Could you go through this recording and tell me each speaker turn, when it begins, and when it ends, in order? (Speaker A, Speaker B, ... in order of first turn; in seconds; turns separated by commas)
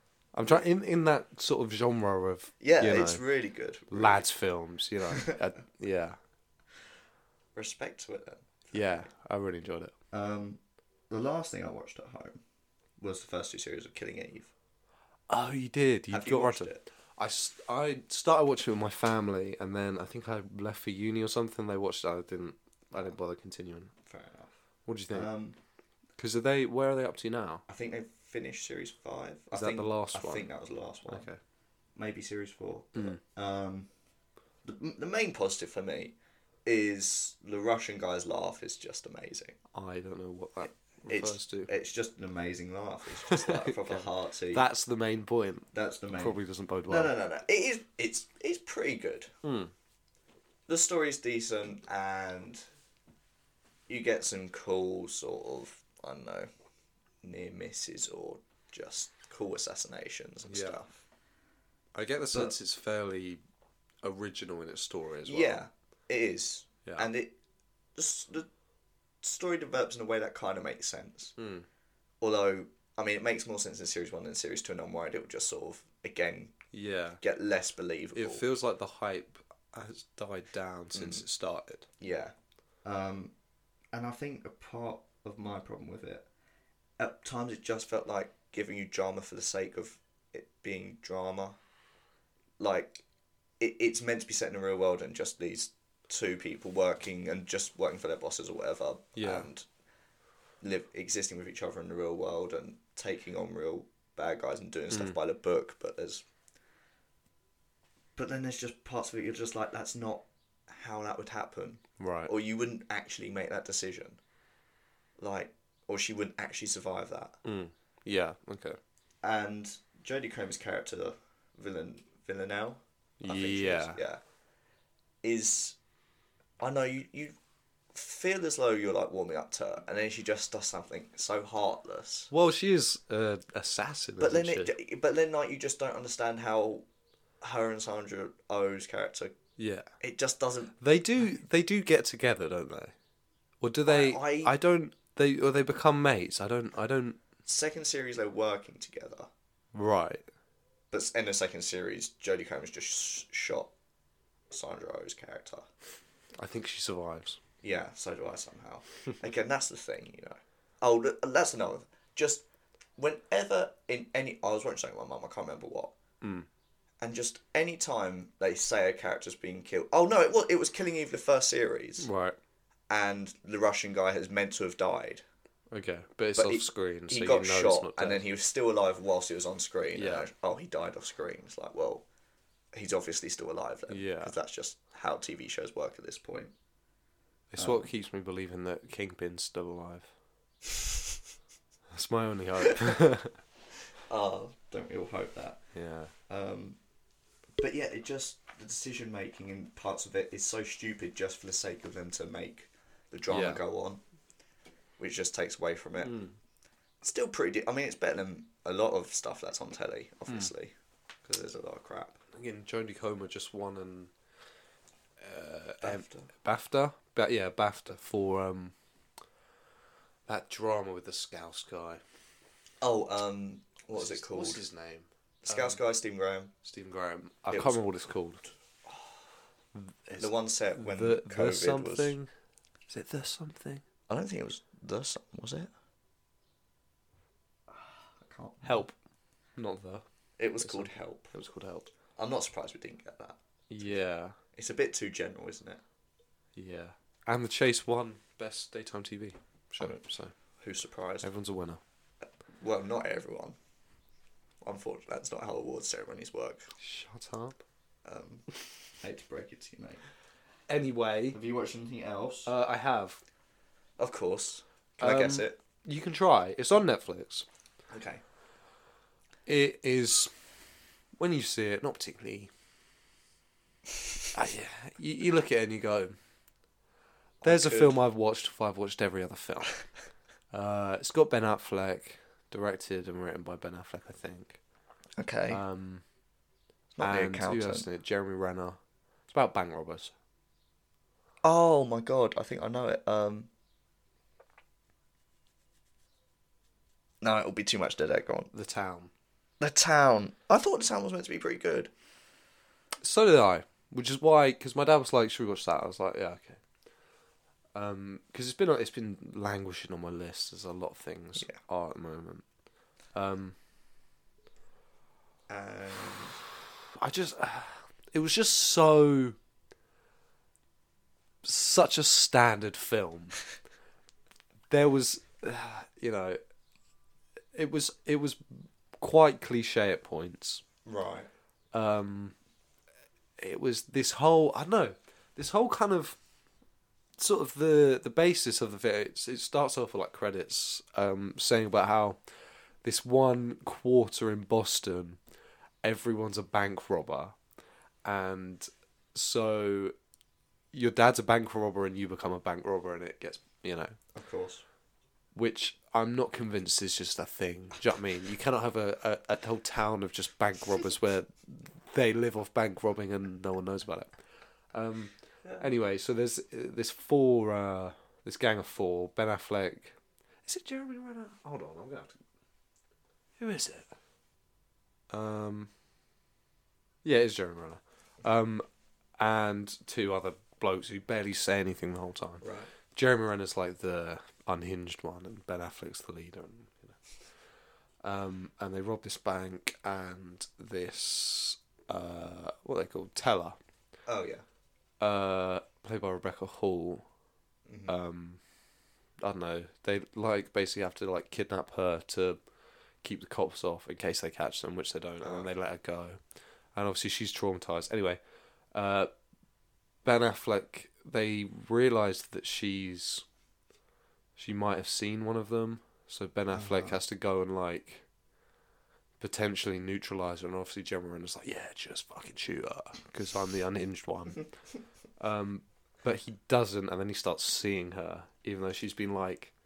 Speaker A: 0.3-3.2, Speaker B: 2.6-4.2, Speaker A: 3.9-6.2, Speaker B: 5.1-5.4, Speaker B: 7.5-9.0, Speaker A: 8.7-9.9, Speaker B: 10.1-12.4, Speaker B: 13.0-14.5, Speaker A: 15.3-23.9, Speaker B: 16.1-16.8, Speaker B: 24.0-24.5, Speaker A: 24.9-25.3, Speaker B: 25.1-25.6, Speaker A: 26.2-27.6, Speaker B: 27.7-31.3, Speaker A: 29.5-30.5, Speaker A: 31.0-31.4, Speaker B: 31.9-33.9, Speaker A: 32.9-33.2, Speaker B: 34.6-39.6, Speaker A: 39.7-41.7, Speaker B: 41.0-44.6, Speaker A: 43.2-47.1, Speaker B: 45.7-46.4, Speaker B: 46.9-49.3, Speaker A: 49.4-49.7, Speaker B: 50.7-52.6, Speaker B: 53.9-56.5, Speaker B: 57.2-60.9, Speaker A: 60.5-60.8, Speaker A: 61.9-63.4, Speaker A: 64.0-65.6, Speaker B: 65.2-67.3, Speaker B: 67.9-68.5, Speaker B: 69.2-71.3, Speaker A: 71.4-71.6, Speaker B: 72.2-76.5, Speaker A: 76.7-77.2, Speaker B: 77.2-78.4, Speaker A: 78.1-81.9, Speaker B: 80.9-81.2, Speaker B: 82.0-83.3, Speaker B: 83.9-86.2, Speaker B: 87.0-91.6, Speaker B: 92.6-93.0, Speaker B: 93.6-99.6, Speaker A: 99.2-99.5, Speaker B: 100.6-106.2, Speaker A: 104.9-105.2, Speaker B: 108.2-114.2, Speaker A: 112.0-112.3, Speaker B: 115.2-117.4, Speaker A: 117.4-118.8, Speaker B: 119.2-124.2, Speaker A: 123.2-124.0, Speaker B: 125.2-125.8, Speaker B: 126.6-127.3, Speaker B: 127.9-132.3, Speaker A: 132.3-134.8, Speaker B: 134.2-136.8, Speaker B: 137.4-139.3, Speaker A: 139.6-139.9, Speaker B: 140.0-140.8, Speaker A: 140.8-142.9, Speaker A: 143.6-147.2, Speaker B: 143.9-144.5, Speaker B: 147.4-149.3, Speaker A: 149.7-150.2, Speaker B: 150.9-153.7, Speaker B: 154.5-155.7, Speaker A: 156.4-157.4, Speaker B: 157.6-162.4, Speaker B: 163.0-165.9, Speaker A: 166.2-166.5, Speaker B: 167.0-172.1, Speaker A: 172.0-172.4, Speaker B: 172.9-175.2, Speaker A: 175.7-178.2, Speaker B: 176.4-182.0, Speaker A: 179.9-180.3, Speaker B: 182.7-186.5, Speaker A: 183.9-184.3, Speaker A: 187.5-190.1, Speaker A: 191.9-193.4, Speaker B: 194.1-195.6, Speaker A: 195.7-196.1, Speaker B: 196.3-196.8, Speaker B: 197.6-204.0, Speaker A: 203.3-203.6, Speaker B: 205.0-206.2, Speaker A: 206.0-206.3, Speaker B: 207.0-212.2, Speaker A: 212.3-214.1, Speaker A: 215.2-218.7, Speaker B: 215.8-216.3, Speaker A: 220.3-222.0, Speaker B: 222.8-224.6, Speaker A: 223.9-225.8, Speaker B: 225.4-226.5, Speaker A: 226.6-228.4, Speaker B: 227.5-227.8, Speaker A: 229.7-232.3, Speaker B: 230.2-232.1, Speaker A: 232.9-233.8, Speaker B: 234.1-235.7, Speaker B: 237.7-238.8, Speaker A: 238.6-238.9, Speaker A: 239.6-240.0, Speaker B: 240.4-241.3, Speaker A: 240.6-241.9, Speaker B: 242.2-243.4, Speaker A: 243.7-244.3, Speaker B: 244.5-245.8, Speaker A: 246.6-250.3, Speaker B: 250.6-251.3, Speaker A: 251.2-251.8, Speaker B: 252.6-253.6, Speaker B: 254.6-256.7, Speaker A: 256.8-257.6, Speaker B: 258.0-258.5, Speaker B: 259.0-260.0, Speaker A: 260.7-261.4, Speaker B: 261.3-262.5, Speaker A: 262.4-263.2, Speaker B: 264.0-265.6, Speaker A: 265.0-267.4, Speaker B: 267.9-268.2, Speaker A: 269.5-270.3, Speaker A: 271.2-272.5, Speaker A: 274.3-276.2, Speaker B: 277.4-277.9, Speaker A: 277.4-279.8, Speaker A: 280.5-284.6, Speaker B: 285.2-285.6, Speaker A: 285.5-286.0, Speaker B: 286.9-287.9, Speaker A: 287.0-290.1, Speaker B: 291.4-293.5, Speaker B: 297.2-298.5, Speaker A: 298.5-299.1, Speaker B: 299.6-301.9, Speaker A: 303.0-306.6, Speaker A: 307.7-312.4, Speaker A: 313.1-313.6, Speaker B: 315.5-316.4, Speaker A: 317.0-319.4, Speaker A: 321.4-323.4, Speaker A: 324.7-326.4, Speaker A: 327.5-330.6, Speaker B: 330.8-331.3, Speaker A: 331.7-332.3, Speaker A: 333.4-336.2, Speaker A: 337.2-342.2, Speaker A: 342.8-345.2, Speaker A: 345.8-347.3, Speaker A: 348.0-349.9, Speaker A: 350.7-353.9, Speaker B: 354.1-354.6, Speaker A: 355.3-364.1, Speaker A: 364.7-372.1, Speaker A: 373.4-373.9, Speaker A: 375.1-375.7, Speaker A: 377.0-378.6, Speaker A: 379.2-387.0, Speaker B: 382.4-382.7, Speaker A: 388.0-393.6, Speaker B: 394.1-394.4, Speaker A: 395.0-397.0, Speaker B: 397.6-397.9, Speaker A: 397.9-398.4, Speaker A: 399.2-402.4, Speaker A: 403.0-406.2, Speaker A: 406.7-408.2, Speaker A: 408.7-409.1, Speaker A: 410.0-413.2, Speaker A: 414.4-418.0, Speaker B: 416.5-417.0, Speaker A: 419.2-424.5, Speaker A: 425.2-429.5